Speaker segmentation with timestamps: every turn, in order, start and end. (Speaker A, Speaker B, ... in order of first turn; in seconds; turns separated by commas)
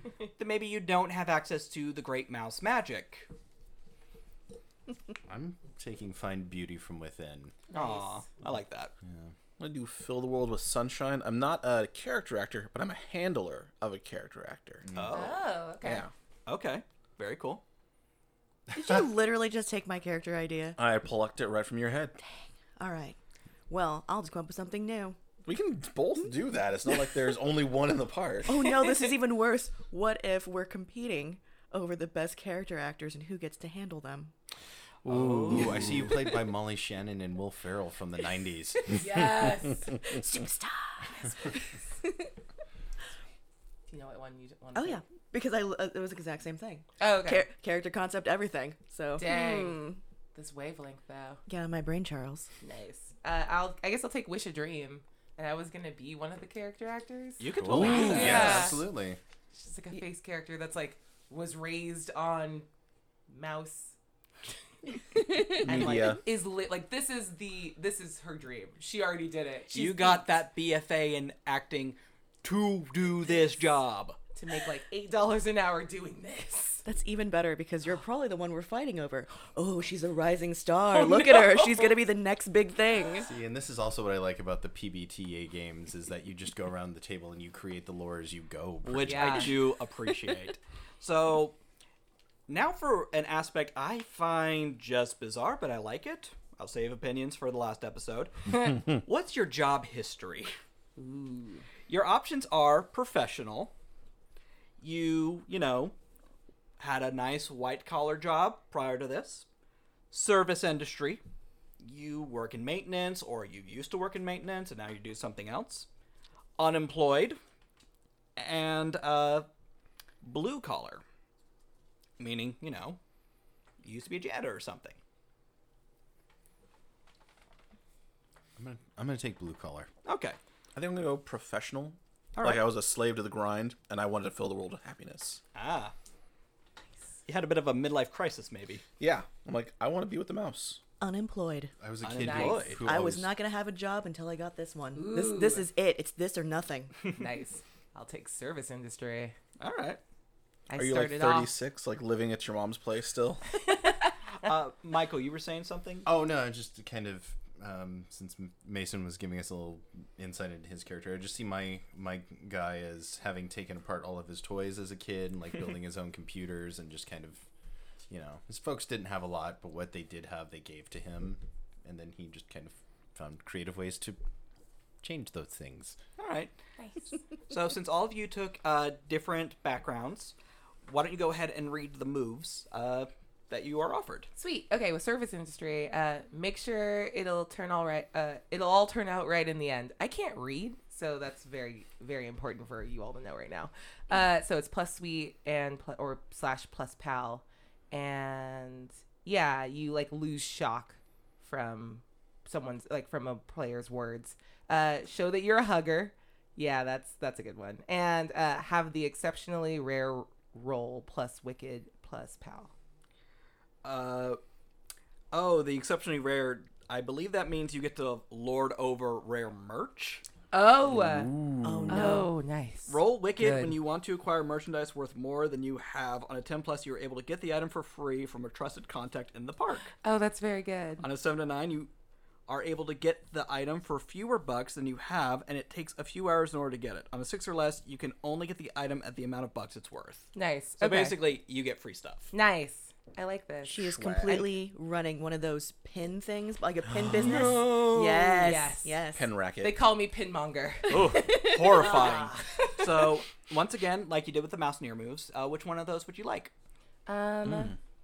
Speaker A: 0.4-3.3, Speaker B: 5.3-7.5, Speaker C: 7.7-8.2, Speaker A: 7.7-8.9, Speaker B: 9.0-9.3, Speaker D: 9.6-14.8, Speaker B: 14.8-15.3, Speaker A: 14.9-15.4, Speaker C: 15.1-16.1, Speaker D: 15.8-16.1, Speaker A: 16.4-17.6, Speaker E: 18.7-20.8, Speaker D: 20.8-22.1, Speaker E: 22.8-23.2, Speaker E: 23.7-25.2, Speaker D: 25.4-28.7, Speaker E: 28.5-34.3, Speaker B: 35.0-39.0, Speaker A: 35.1-35.9, Speaker C: 38.9-40.0, Speaker E: 40.0-41.3, Speaker C: 43.9-45.0, Speaker E: 44.7-50.0, Speaker C: 47.0-47.5, Speaker C: 49.1-51.4, Speaker E: 51.5-52.5, Speaker C: 52.6-58.8, Speaker A: 57.4-58.8, Speaker B: 57.6-59.2, Speaker D: 57.7-58.3, Speaker C: 59.5-62.7, Speaker C: 63.3-63.9, Speaker C: 65.4-70.2, Speaker D: 65.5-66.2, Speaker A: 69.7-74.2, Speaker C: 74.3-76.8, Speaker E: 76.8-83.3, Speaker C: 81.0-81.9, Speaker B: 83.2-89.6, Speaker A: 88.8-91.5, Speaker C: 89.0-89.5, Speaker A: 92.5-100.5, Speaker C: 101.0-101.6, Speaker A: 101.9-103.7, Speaker A: 104.8-105.9, Speaker A: 106.8-109.5, Speaker A: 110.1-111.2, Speaker A: 111.8-115.9, Speaker A: 116.6-117.4, Speaker A: 118.3-119.5, Speaker A: 120.2-121.0, Speaker A: 122.2-123.0, Speaker A: 123.8-125.0, Speaker B: 128.6-129.9, Speaker A: 130.0-130.4, Speaker D: 130.7-135.4, Speaker A: 132.3-132.6, Speaker A: 135.5-135.9, Speaker A: 137.2-138.8, Speaker D: 139.0-140.8, Speaker E: 141.0-141.7, Speaker B: 141.8-143.3, Speaker A: 142.0-142.8, Speaker C: 142.2-142.8, Speaker E: 142.8-146.9, Speaker C: 144.9-145.7, Speaker C: 147.1-149.3, Speaker A: 149.6-150.0, Speaker C: 150.7-151.5, Speaker D: 150.7-153.4, Speaker C: 153.7-153.9, Speaker A: 154.4-156.1, Speaker B: 156.0-167.4, Speaker B: 168.1-174.2, Speaker B: 175.0-176.0, Speaker A: 176.2-176.5, Speaker C: 176.8-177.0, Speaker A: 177.5-180.3, Speaker A: 180.8-184.3, Speaker C: 184.3-212.7, Speaker A: 213.8-214.4, Speaker A: 215.3-220.2, Speaker C: 220.5-221.3, Speaker D: 221.0-222.1, Speaker E: 221.6-222.3, Speaker C: 221.9-223.8, Speaker A: 222.9-229.9, Speaker C: 230.0-231.0, Speaker A: 231.0-231.9, Speaker A: 232.5-242.3, Speaker C: 240.3-241.2, Speaker C: 242.3-244.0, Speaker E: 243.7-249.3, Speaker D: 243.8-244.4, Speaker A: 247.1-248.6, Speaker C: 248.4-249.0, Speaker D: 249.1-249.8, Speaker C: 249.6-253.1, Speaker A: 250.9-256.5, Speaker C: 257.1-257.7